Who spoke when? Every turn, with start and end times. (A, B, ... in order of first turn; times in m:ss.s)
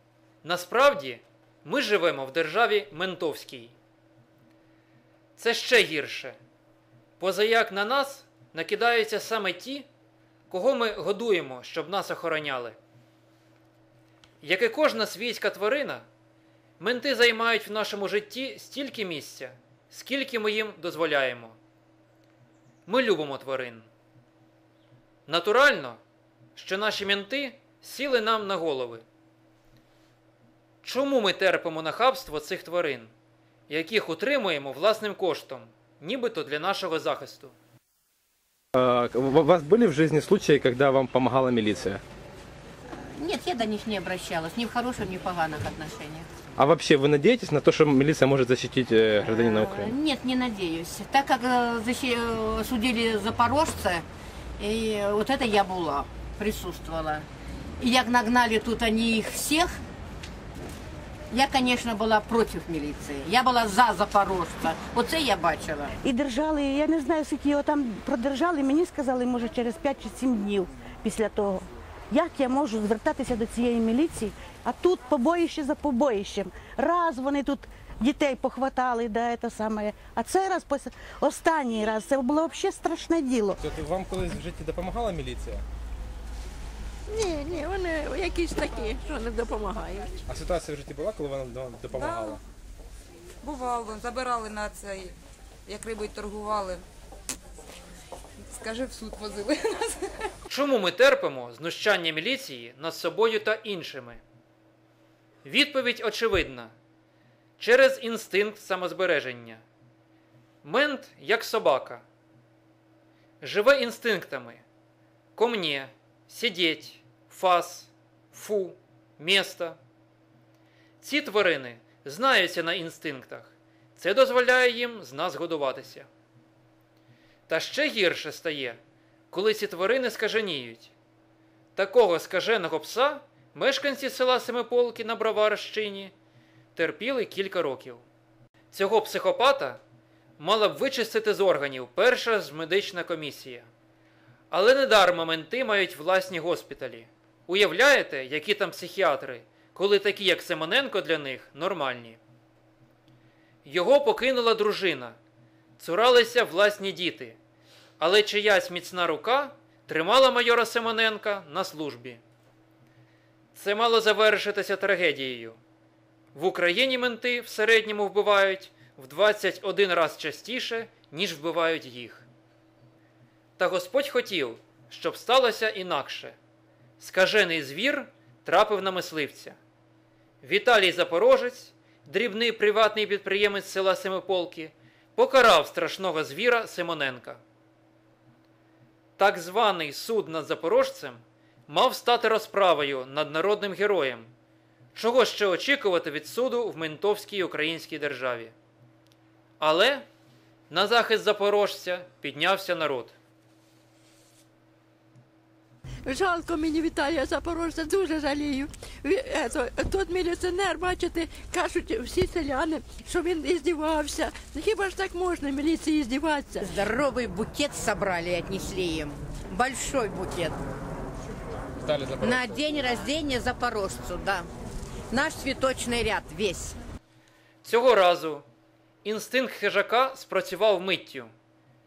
0:00.4-0:03.7 A
0:05.4-0:06.4 A
0:07.2-0:09.9 A
0:10.5-0:12.8 A
0:14.4-0:16.0 A
0:16.8-0:21.6 A
0:22.9-0:23.9 A
0:25.3-0:26.0 A
0:26.6-0:29.0 A
0:30.8-0:33.1 A
0:33.7-0:37.5 A
0:38.7-0:42.0 B
0:42.9-0:46.3 C
0:46.6-0:49.9 B
0:49.2-0:54.0 C
0:54.6-0:57.2 C
0:57.8-0:59.8 C
1:01.3-1:05.9 C
1:06.0-1:23.6 D
1:23.6-1:25.6 B
1:27.1-1:30.1 E
1:30.3-1:32.4 B
1:31.9-1:32.4 F
1:33.4-1:35.2 F
1:35.7-1:36.8 F
1:38.5-1:40.0 F
1:40.5-1:44.2 A
1:45.4-1:46.7 A
1:47.6-1:49.6 A
1:50.6-1:52.0 A
1:53.4-1:54.6 A
1:55.4-1:59.8 A
2:01.0-2:06.1 A
2:07.5-2:08.8 A
2:09.3-2:10.9 A
2:11.8-2:16.1 A
2:16.7-2:18.0 A
2:18.7-2:19.8 A
2:20.4-2:23.7 A
2:24.5-2:32.2 A
2:33.6-2:35.2 A
2:35.8-2:37.4 A
2:38.0-2:42.2 A
2:43.5-2:45.6 A
2:46.3-2:52.3 A
2:53.6-2:56.4 A
2:57.0-2:59.6 A
3:00.4-3:07.4 A
3:09.2-3:14.3 A
3:14.9-3:18.5 A
3:19.6-3:20.1 A
3:20.7-3:23.2 A
3:26.0-3:36.7 E
3:36.6-3:40.6 C
3:41.8-3:42.6 B
3:42.2-3:44.5 C
3:45.1-3:46.8 C
3:47.6-3:48.4 A
3:49.0-3:51.3 A